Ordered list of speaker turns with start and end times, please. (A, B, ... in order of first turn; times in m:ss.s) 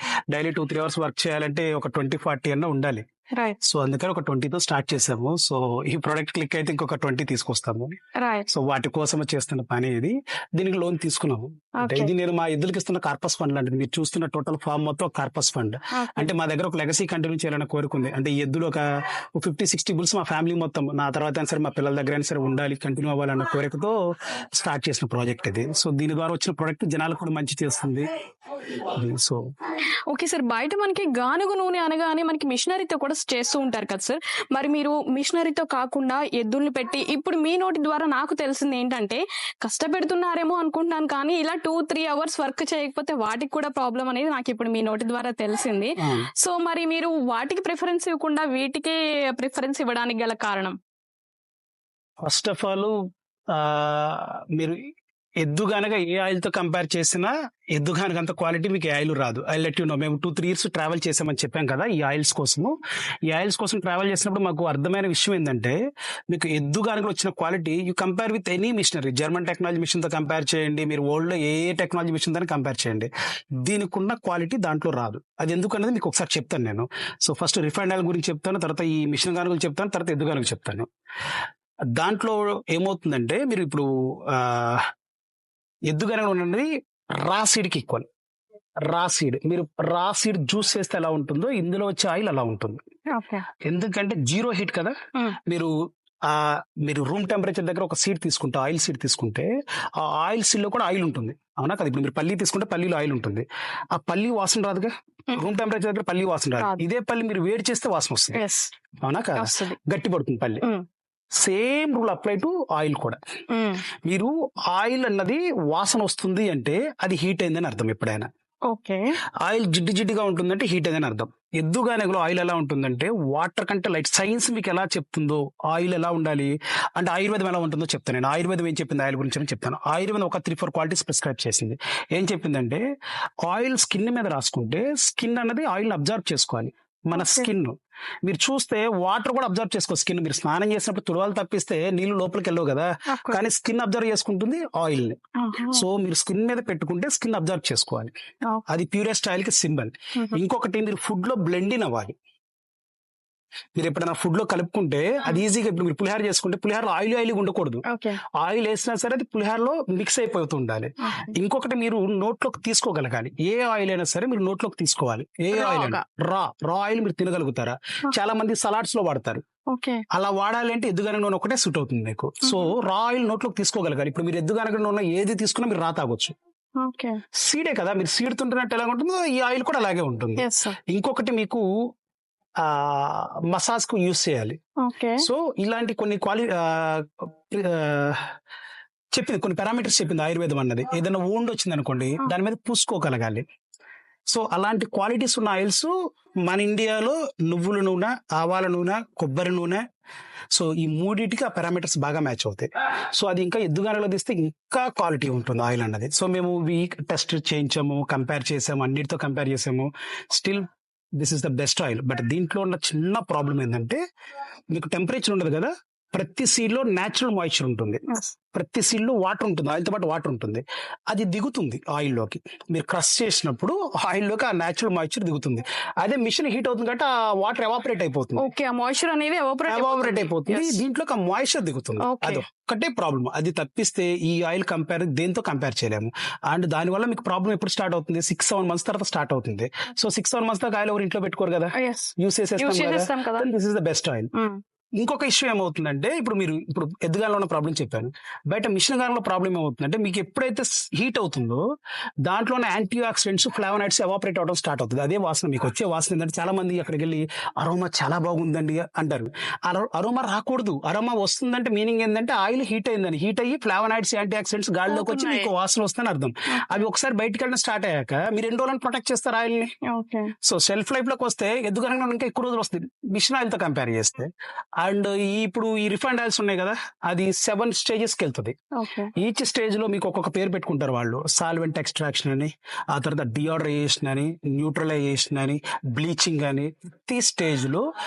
0:00.3-0:03.1 A
0:03.6-0:08.0 A
0:08.2-0:08.5 B
0:08.5-0:18.9 A
0:11.8-0:12.1 B
0:15.9-0:16.3 B
0:19.4-0:28.1 A
0:28.7-0:29.4 A
0:30.1-0:50.8 B
0:46.0-0:46.3 A
0:52.2-0:52.9 A
0:53.5-0:54.9 A
0:55.4-1:02.8 A
1:03.3-1:05.8 A
1:06.3-1:13.1 A
1:13.6-1:20.9 A
1:21.9-1:24.9 A
1:25.9-1:28.1 A
1:28.8-1:32.8 A
1:33.1-1:33.5 B
1:33.6-1:35.7 A
1:36.2-1:48.4 A
1:48.3-1:48.7 B
1:49.0-1:50.6 A
1:49.4-1:49.8 B
1:51.4-1:53.2 A
1:53.5-1:53.8 B
1:54.0-1:58.3 A
1:58.7-1:59.2 B
1:59.4-2:12.8 A
2:13.4-2:28.1 A
2:17.2-2:17.5 B
2:23.1-2:23.4 B
2:25.4-2:25.8 B
2:28.7-2:32.2 A
2:33.8-2:49.4 A
2:37.8-2:38.2 B
2:41.0-2:41.4 B
2:45.5-2:46.0 B
2:49.7-2:50.0 B
2:50.1-2:56.3 A
2:52.4-2:52.7 B
2:56.8-2:57.2 B
2:57.3-3:01.6 A
3:00.4-3:00.8 B
3:02.6-3:04.6 A
3:04.8-3:05.2 B
3:05.2-3:08.3 A
3:09.1-3:13.4 A
3:14.3-3:15.9 A
3:16.5-3:19.8 A
3:20.5-3:34.0 A
3:34.7-3:48.5 A
3:48.4-3:50.8 B
3:49.7-4:04.3 A
3:52.0-3:52.4 B
4:01.8-4:03.5 B
4:04.3-4:04.6 B
4:05.0-4:11.6 A
4:12.2-4:29.7 A
4:24.9-4:25.5 B
4:26.5-4:26.8 B
4:29.9-4:30.3 B
4:30.4-4:38.6 A
4:38.8-4:39.1 B
4:39.1-4:47.9 A